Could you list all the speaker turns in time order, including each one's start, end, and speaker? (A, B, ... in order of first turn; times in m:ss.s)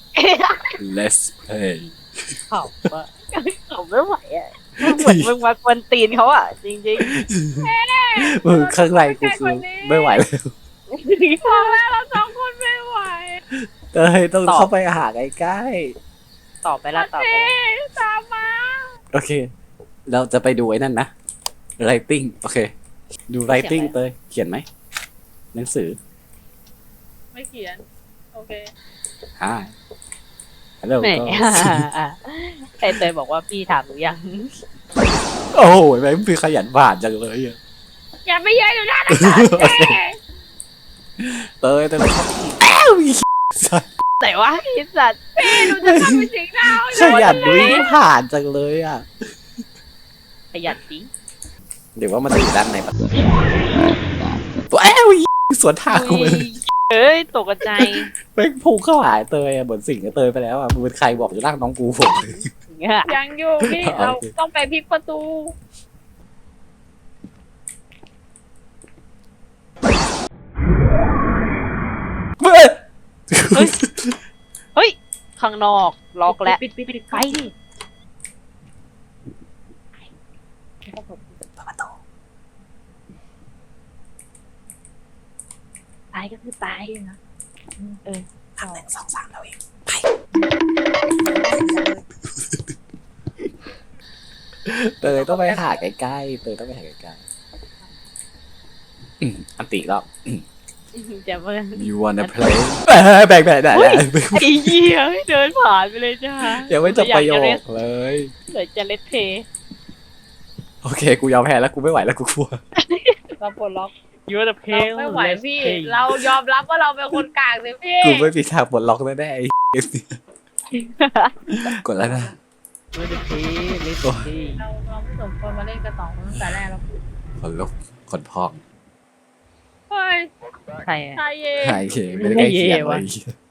0:00.2-0:00.8 A
0:00.8-0:02.3 B
0:02.5-0:07.1 A
0:04.8-0:05.3 B
0:07.0-0:10.5 B
0:07.6-0:10.2 C
0:10.9-0:11.8 A
0:11.4-0:13.4 C
0:13.7-0:16.0 B
0:14.4-0:14.7 A
0:16.6-0:17.6 A
0:16.9-0:19.0 C
0:19.1-0:19.5 B
0:20.1-0:21.1 B
0:21.8-0:22.7 B
0:23.3-0:24.7 B
0:23.5-0:24.0 A
0:25.5-0:26.0 B
0:27.3-0:28.7 C
0:29.4-0:29.7 B
0:30.8-0:31.9 B
0:31.0-0:34.5 A
0:35.5-0:37.6 B
0:38.2-0:40.2 C
0:39.1-0:40.0 B
0:41.2-0:43.9 B
0:44.2-0:45.2 A
0:45.4-0:47.9 C
0:45.4-0:49.1 B
0:46.9-0:47.8 A
0:50.5-0:51.1 A
0:52.0-0:52.9 B
0:54.7-0:56.6 B
0:55.9-0:58.1 A
0:57.7-1:02.5 B
1:02.7-1:03.2 A
1:03.1-1:05.6 C
1:03.6-1:04.3 B
1:12.4-1:12.8 B
1:13.3-1:14.2 B
1:14.8-1:17.5 A
1:16.3-1:17.4 C
1:20.9-1:21.4 C
1:21.6-1:21.9 B
1:26.1-1:26.9 A
1:26.9-1:27.2 C
1:27.8-1:28.0 C
1:28.6-1:30.0 B
1:28.6-1:28.9 C
1:31.2-1:32.0 C
1:34.7-1:37.2 B
1:35.1-1:35.8 C
1:39.2-1:40.4 B
1:40.9-1:42.4 A
1:41.8-1:44.8 B
1:43.7-1:47.6 A
1:46.5-1:48.3 B
1:48.5-1:49.5 A
1:50.8-1:52.6 B
1:52.8-1:53.2 A
1:53.4-1:53.9 C
1:54.3-1:56.4 A
1:54.7-1:58.3 C
1:58.0-2:00.2 B
2:00.7-2:01.8 A
2:01.5-2:02.4 B
2:02.9-2:04.6 A
2:04.0-2:04.3 B
2:04.6-2:07.0 C
2:07.4-2:08.6 B
2:09.9-2:10.3 C
2:10.8-2:11.2 A
2:11.2-2:12.4 C
2:11.6-2:13.3 B
2:12.2-2:13.0 A